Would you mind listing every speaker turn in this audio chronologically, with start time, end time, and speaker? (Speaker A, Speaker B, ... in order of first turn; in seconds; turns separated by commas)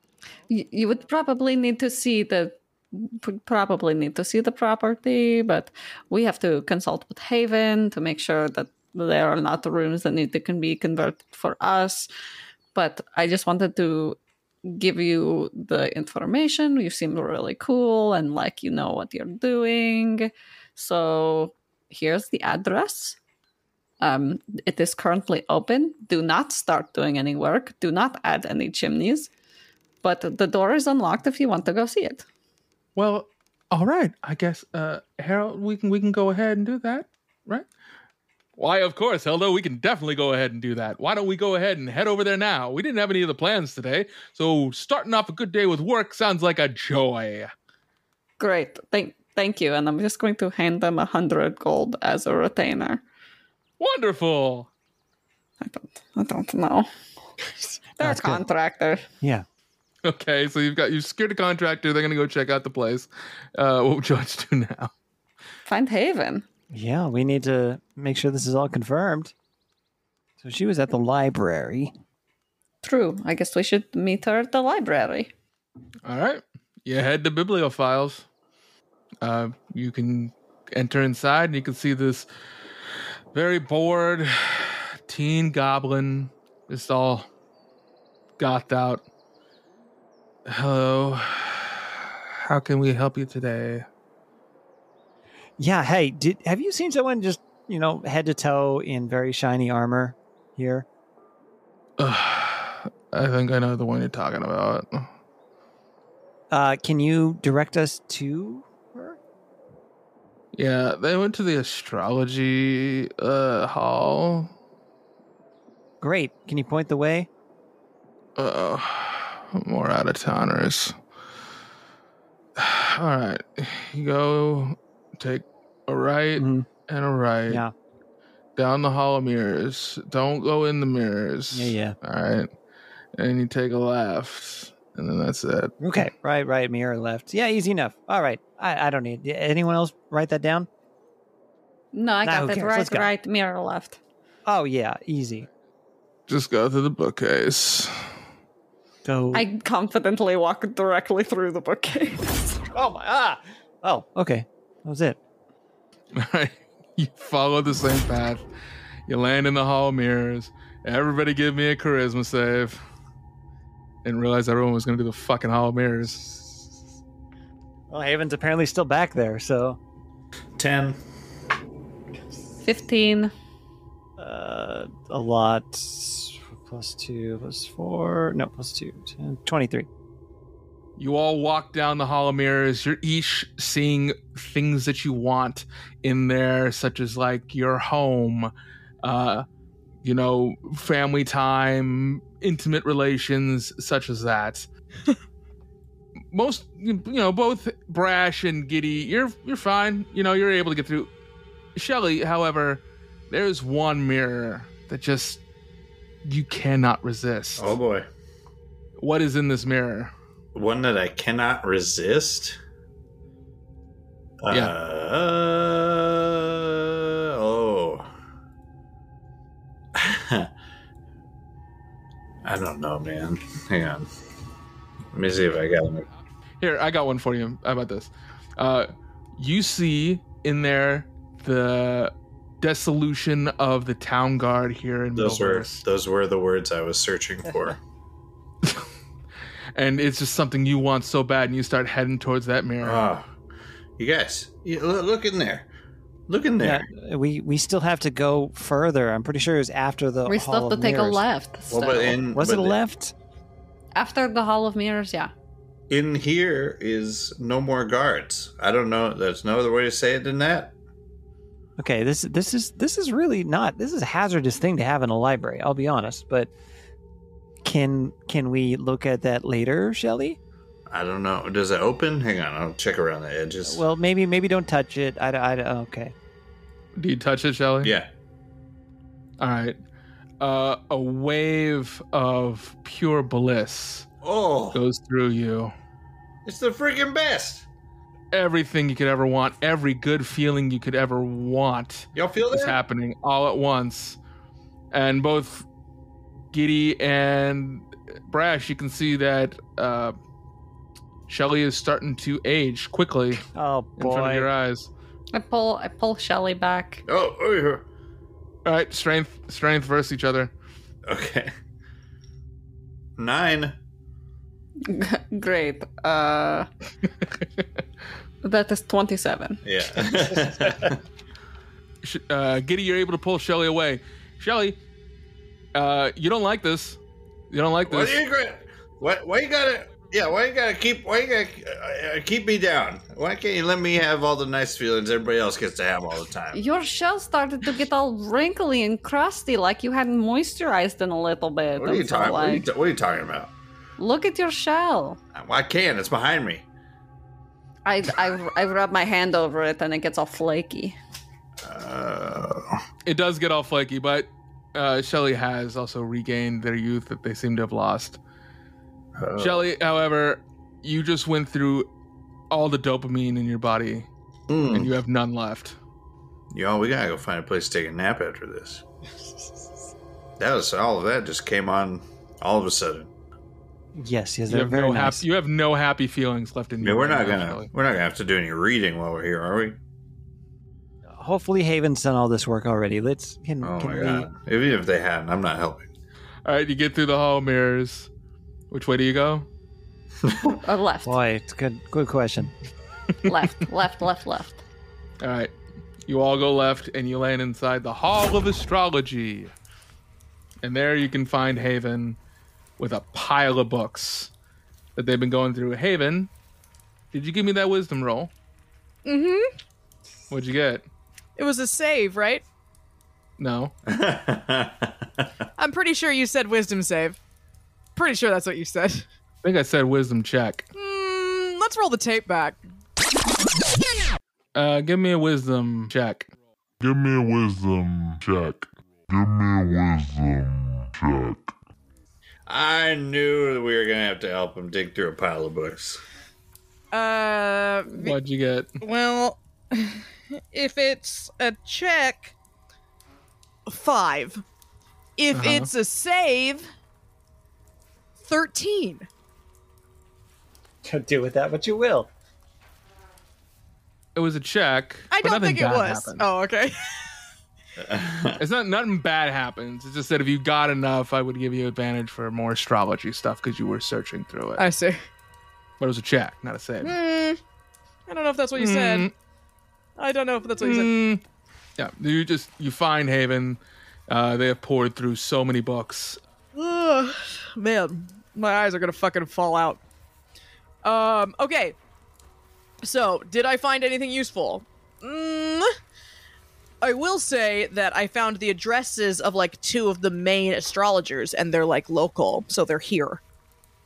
Speaker A: 0.5-12.1, Speaker A: 12.7-23.2, Speaker A: 24.0-29.3, Speaker A: 30.0-32.2, Speaker B: 33.0-37.6, Speaker B: 38.6-47.5, Speaker A: 48.4-53.0, Speaker B: 53.8-54.7, Speaker A: 55.6-56.9, Speaker A: 57.5-59.0, Speaker C: 58.0-58.5, Speaker C: 59.2-59.5, Speaker B: 60.0-64.9, Speaker A: 65.7-66.4, Speaker C: 66.7-69.3, Speaker C: 70.4-71.9, Speaker A: 72.8-75.3, Speaker B: 76.0-78.2, Speaker B: 79.2-82.2, Speaker B: 83.3-87.3, Speaker B: 88.4-89.0, Speaker B: 90.5-93.8, Speaker C: 95.6-100.8, Speaker B: 102.0-105.1, Speaker C: 106.5-109.2, Speaker B: 110.5-114.5, Speaker C: 116.0-117.3, Speaker B: 118.4-120.9, Speaker B: 122.6-127.6, Speaker C: 126.4-126.7, Speaker B: 128.6-132.5, Speaker C: 131.5-131.9, Speaker B: 133.2-135.7, Speaker C: 135.8-140.7, Speaker A: 141.9-144.0, Speaker C: 142.2-143.1, Speaker C: 144.4-145.4, Speaker B: 146.3-147.9, Speaker C: 149.0-149.5, Speaker A: 149.3-152.6, Speaker C: 152.7-155.2, Speaker B: 156.1-158.4, Speaker B: 159.1-162.8, Speaker B: 164.0-166.2, Speaker C: 167.9-169.8, Speaker D: 170.6-171.0, Speaker A: 172.6-173.3, Speaker C: 174.2-179.9, Speaker B: 181.0-188.5, Speaker B: 189.0-189.4, Speaker B: 190.0-194.7, Speaker B: 196.3-201.1, Speaker B: 201.8-205.4, Speaker B: 206.2-207.8, Speaker D: 207.6-208.1, Speaker B: 209.0-210.1, Speaker D: 210.5-212.6, Speaker D: 214.4-218.1, Speaker D: 219.9-220.5, Speaker D: 222.4-224.1, Speaker D: 225.1-226.1, Speaker B: 226.6-235.8, Speaker D: 235.1-237.8, Speaker C: 237.4-237.7, Speaker B: 239.8-243.1, Speaker D: 242.8-243.3, Speaker D: 244.0-245.7, Speaker D: 246.3-246.8, Speaker C: 246.6-251.2, Speaker A: 250.3-252.2, Speaker D: 251.7-252.8, Speaker C: 252.3-253.1, Speaker A: 253.9-255.3, Speaker D: 255.9-260.7, Speaker C: 261.8-266.5, Speaker C: 267.6-270.4, Speaker D: 270.9-273.8, Speaker C: 273.6-276.1, Speaker B: 276.9-277.9, Speaker D: 277.8-278.1, Speaker B: 279.4-279.8, Speaker B: 280.4-284.1, Speaker D: 284.2-284.8, Speaker B: 284.7-285.7, Speaker D: 286.4-287.6, Speaker B: 288.3-294.2, Speaker D: 292.1-292.8, Speaker B: 294.9-295.6, Speaker B: 296.5-300.1, Speaker B: 301.3-303.4, Speaker C: 303.5-304.5, Speaker B: 304.0-304.9, Speaker A: 305.3-307.0, Speaker D: 307.1-307.9, Speaker B: 308.6-310.5, Speaker D: 311.1-311.5, Speaker D: 313.2-313.8, Speaker A: 314.8-316.7, Speaker A: 318.4-319.6, Speaker D: 319.6-321.0, Speaker C: 320.4-320.9, Speaker B: 322.0-324.8, Speaker B: 325.7-327.0, Speaker B: 327.5-328.2, Speaker D: 327.8-336.6, Speaker A: 336.5-342.6, Speaker D: 341.8-343.5, Speaker A: 344.0-345.2, Speaker D: 345.3-346.6, Speaker A: 347.9-350.9, Speaker D: 351.6-352.8, Speaker B: 353.0-358.2, Speaker D: 359.2-359.7, Speaker B: 359.4-361.9, Speaker B: 362.5-364.1, Speaker D: 364.5-364.9, Speaker B: 364.7-365.8, Speaker D: 366.5-368.8, Speaker D: 370.4-373.1, Speaker C: 373.9-375.2, Speaker B: 374.5-377.7, Speaker D: 376.8-379.8, Speaker C: 381.1-384.3, Speaker D: 383.6-385.9, Speaker B: 386.4-388.1, Speaker B: 388.7-389.5, Speaker A: 390.4-391.1, Speaker C: 391.0-392.5, Speaker A: 393.2-394.6, Speaker B: 395.2-395.5, Speaker B: 396.1-399.5, Speaker B: 400.6-402.2, Speaker B: 402.8-404.3, Speaker B: 404.9-406.3, Speaker B: 407.1-408.3, Speaker E: 409.0-409.5, Speaker B: 410.3-410.8, Speaker E: 411.4-412.4, Speaker B: 413.4-413.7, Speaker D: 413.9-415.4, Speaker E: 415.6-417.2, Speaker E: 417.9-419.1, Speaker B: 419.4-420.7, Speaker E: 420.8-422.6, Speaker B: 424.5-426.3, Speaker F: 426.8-431.5, Speaker D: 432.5-436.0, Speaker E: 436.9-438.1, Speaker B: 437.9-438.7, Speaker E: 438.8-442.3, Speaker E: 443.6-444.4, Speaker E: 445.2-446.6, Speaker B: 445.3-445.7, Speaker E: 448.2-449.1, Speaker C: 450.8-452.1, Speaker B: 454.1-456.2, Speaker E: 455.1-457.1, Speaker D: 457.8-458.4, Speaker B: 458.4-464.6, Speaker E: 464.6-465.0, Speaker B: 465.8-466.9, Speaker E: 466.8-467.4, Speaker E: 468.1-469.1, Speaker B: 468.6-469.1, Speaker E: 470.0-470.9, Speaker B: 470.6-471.2, Speaker B: 471.8-476.2, Speaker E: 476.5-479.8, Speaker E: 480.8-481.8, Speaker E: 482.8-485.7, Speaker E: 486.8-493.2